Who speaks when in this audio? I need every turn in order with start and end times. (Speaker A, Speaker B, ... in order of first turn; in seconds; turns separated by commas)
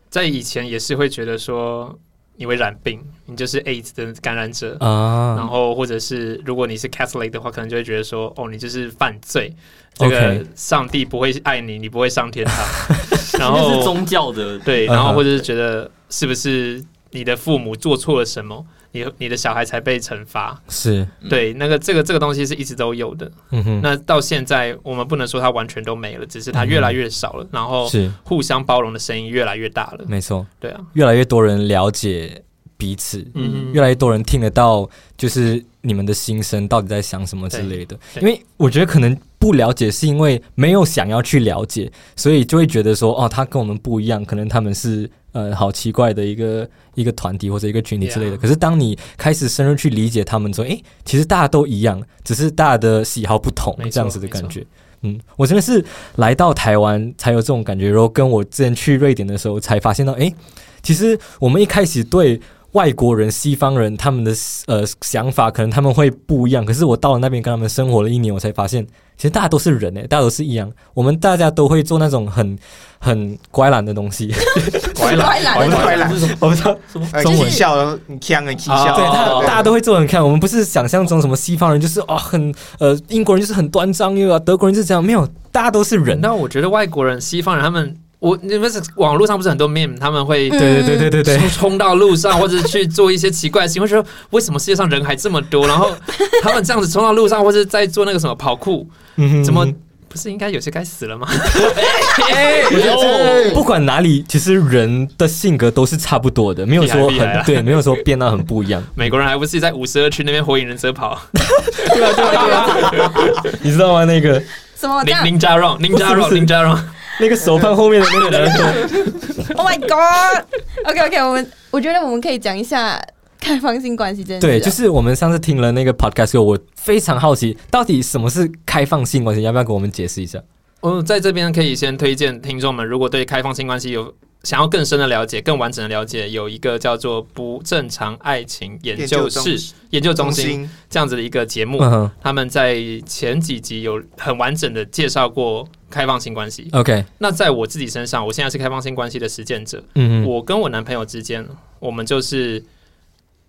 Speaker A: 0.1-14.0, Speaker B: 4.8-5.5, Speaker B: 10.0-10.4, Speaker C: 13.3-14.8, Speaker A: 14.7-20.6, Speaker B: 14.9-15.2, Speaker B: 20.7-21.1, Speaker A: 21.3-30.9, Speaker B: 23.5-23.9, Speaker B: 26.5-27.0, Speaker B: 27.9-28.2, Speaker B: 30.1-77.6, Speaker A: 33.4-33.8, Speaker A: 37.5-38.3, Speaker A: 48.0-48.4, Speaker A: 53.8-54.6, Speaker D: 74.7-76.1, Speaker A: 75.0-76.1, Speaker E: 75.1-76.3, Speaker C: 75.8-77.2, Speaker E: 77.1-79.7, Speaker D: 77.2-77.6, Speaker A: 78.7-79.6, Speaker B: 78.9-86.3, Speaker C: 79.2-79.6, Speaker A: 86.1-90.6, Speaker D: 90.5-91.1, Speaker B: 90.5-91.6, Speaker A: 91.2-102.9, Speaker B: 99.2-99.7, Speaker C: 101.8-103.6, Speaker E: 102.7-103.6, Speaker B: 102.7-108.9, Speaker A: 106.8-108.0, Speaker A: 109.0-113.5, Speaker B: 111.5-114.5, Speaker D: 112.4-112.7, Speaker D: 114.8-115.3, Speaker A: 115.0-117.0, Speaker B: 115.9-116.5, Speaker B: 117.2-119.3, Speaker A: 118.2-119.1, Speaker D: 119.5-124.8, Speaker B: 124.4-130.4, Speaker A: 130.8-152.7, Speaker E: 139.0-140.7, Speaker B: 141.8-142.1, Speaker B: 146.7-147.1, Speaker B: 150.0-150.3